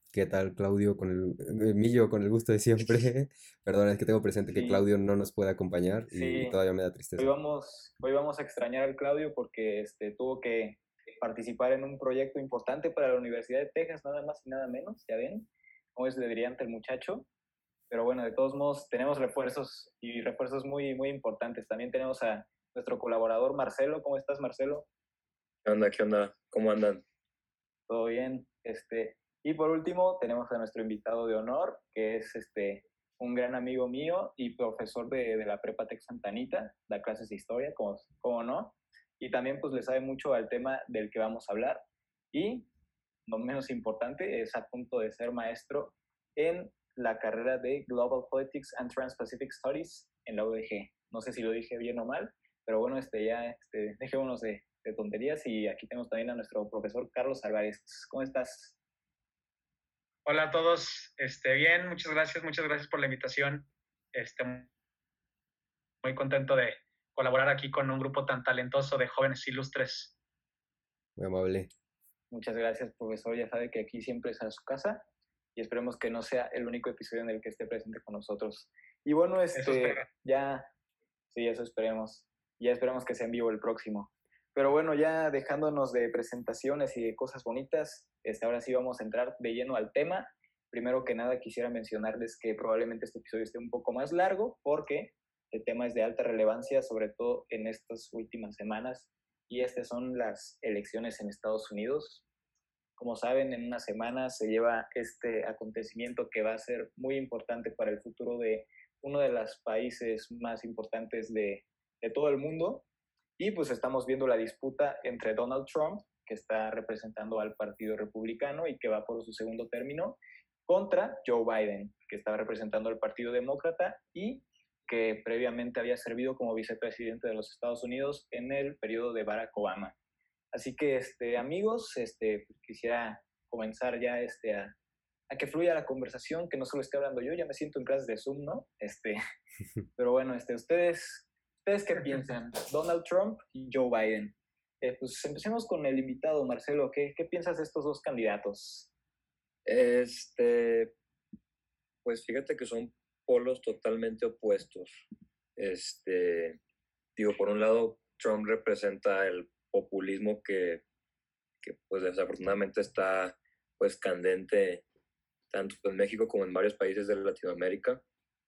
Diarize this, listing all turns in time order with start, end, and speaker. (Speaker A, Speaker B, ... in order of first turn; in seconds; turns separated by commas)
Speaker A: 0.1-7.3, Speaker B: 4.5-4.8, Speaker B: 6.1-6.6, Speaker B: 7.2-17.3, Speaker B: 17.9-24.9, Speaker C: 25.6-27.0, Speaker B: 27.9-42.7, Speaker B: 43.3-58.8, Speaker D: 60.2-64.7, Speaker D: 66.0-70.2, Speaker A: 71.2-71.7, Speaker B: 72.3-75.0, Speaker B: 75.5-80.7, Speaker D: 79.6-80.0, Speaker B: 81.3-102.2, Speaker B: 103.0-112.8, Speaker B: 113.4-129.9, Speaker B: 130.5-134.7, Speaker B: 135.3-139.2, Speaker B: 140.0-148.9, Speaker C: 149.6-150.9, Speaker C: 152.0-155.1, Speaker C: 155.6-156.6, Speaker C: 157.2-160.8, Speaker C: 161.6-164.8, Speaker C: 165.5-168.0